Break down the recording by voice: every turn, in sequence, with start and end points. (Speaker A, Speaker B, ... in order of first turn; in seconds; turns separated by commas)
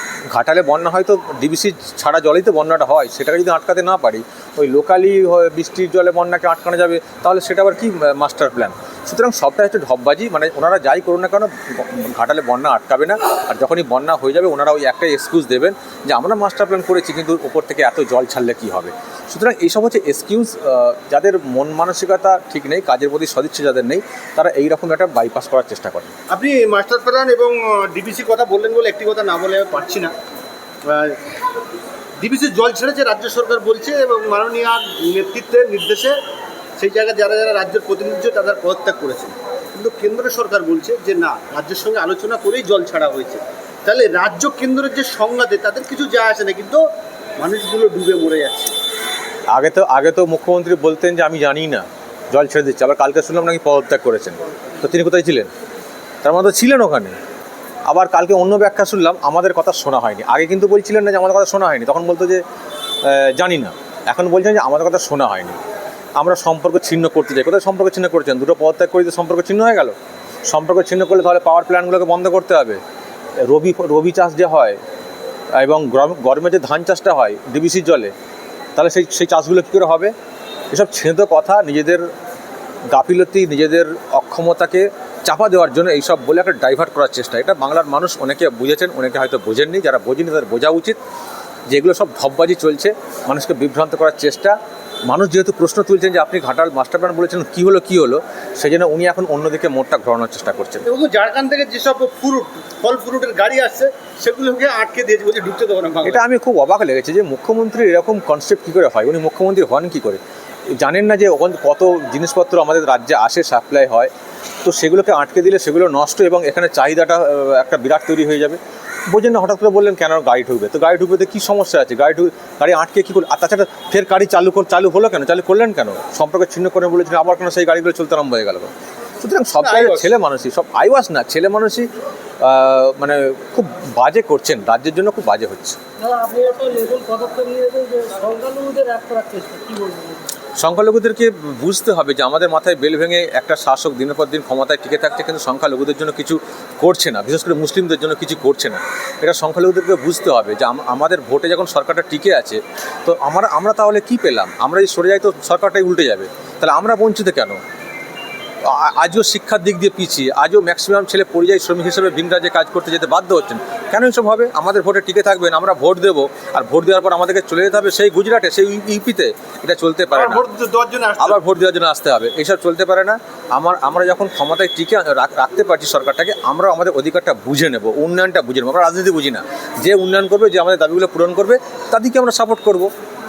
Speaker A: 0.3-26.1, Speaker B: 26.3-30.1, Speaker B: 30.9-31.2, Speaker B: 32.2-36.2, Speaker B: 36.8-46.8, Speaker B: 47.4-48.7, Speaker A: 49.5-55.5, Speaker A: 56.2-57.1, Speaker A: 57.9-62.4, Speaker A: 63.0-65.6, Speaker A: 66.2-70.0, Speaker A: 70.5-72.8, Speaker A: 73.4-74.8, Speaker A: 75.5-78.1, Speaker A: 78.8-80.1, Speaker A: 80.7-82.0, Speaker A: 82.9-91.0, Speaker A: 91.7-94.6, Speaker A: 95.1-100.8, Speaker B: 100.8-106.2, Speaker A: 106.0-110.2, Speaker A: 110.8-114.1, Speaker A: 114.6-118.6, Speaker A: 119.1-131.9, Speaker B: 129.6-130.1, Speaker A: 132.4-135.8, Speaker C: 136.0-140.2, Speaker A: 140.6-157.6, Speaker A: 158.6-170.4, Speaker B: 170.1-171.4, Speaker A: 171.2-182.9